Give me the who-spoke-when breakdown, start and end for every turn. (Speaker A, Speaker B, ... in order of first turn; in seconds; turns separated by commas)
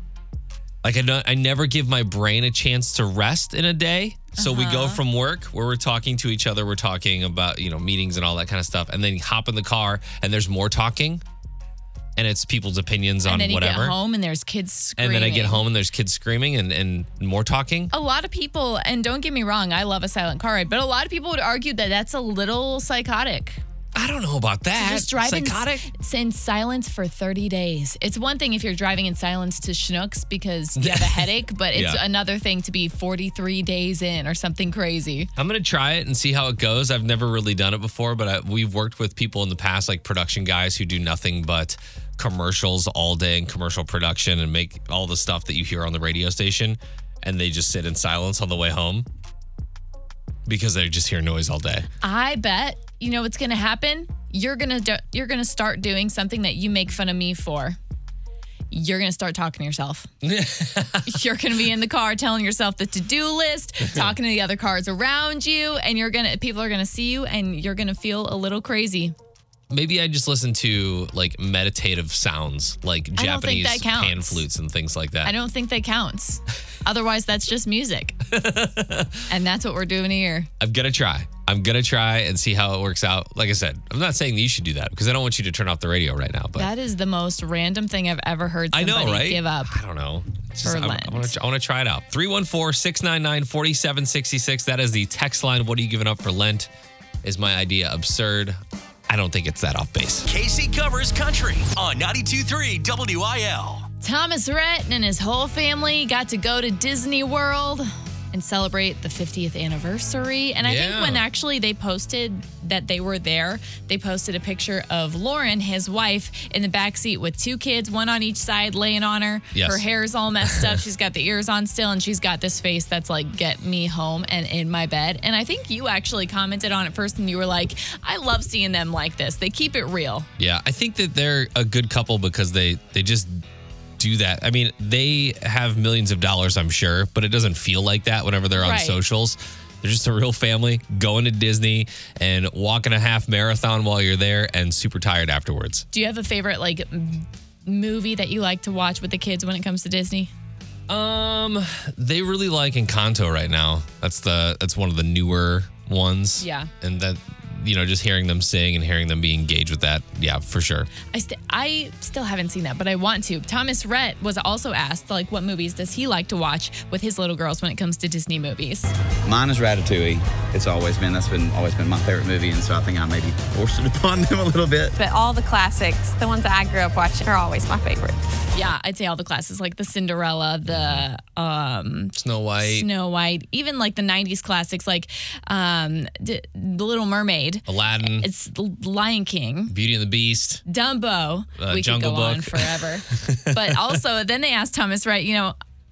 Speaker A: 0.8-11.2, Speaker B: 4.4-5.0, Speaker A: 12.2-13.9, Speaker B: 13.2-15.6, Speaker A: 15.0-17.9, Speaker B: 17.9-23.6, Speaker A: 23.9-25.9, Speaker B: 24.8-35.3, Speaker A: 30.8-32.0, Speaker A: 35.4-49.1, Speaker A: 50.4-51.9, Speaker B: 52.0-57.8, Speaker B: 58.7-60.1, Speaker A: 60.2-61.2, Speaker B: 61.0-69.1, Speaker A: 69.7-75.3, Speaker B: 73.2-74.4, Speaker B: 75.2-78.2, Speaker A: 78.3-79.2, Speaker B: 79.3-80.5, Speaker A: 80.6-86.7, Speaker B: 86.5-89.8, Speaker A: 88.7-96.7, Speaker B: 90.6-91.3, Speaker A: 97.2-100.3, Speaker C: 100.3-103.9, Speaker B: 104.0-130.3, Speaker A: 110.6-111.2, Speaker A: 119.5-119.8, Speaker A: 130.4-133.4, Speaker A: 134.0-145.8, Speaker B: 138.6-139.0, Speaker B: 145.9-150.3, Speaker A: 150.9-160.9, Speaker B: 156.4-156.7, Speaker B: 161.1-168.9, Speaker D: 169.2-174.9, Speaker E: 174.9-178.2, Speaker B: 178.5-189.7, Speaker A: 180.7-181.1, Speaker A: 182.1-182.9, Speaker A: 187.7-188.3, Speaker A: 189.7-190.6, Speaker B: 190.7-195.5, Speaker A: 191.6-194.0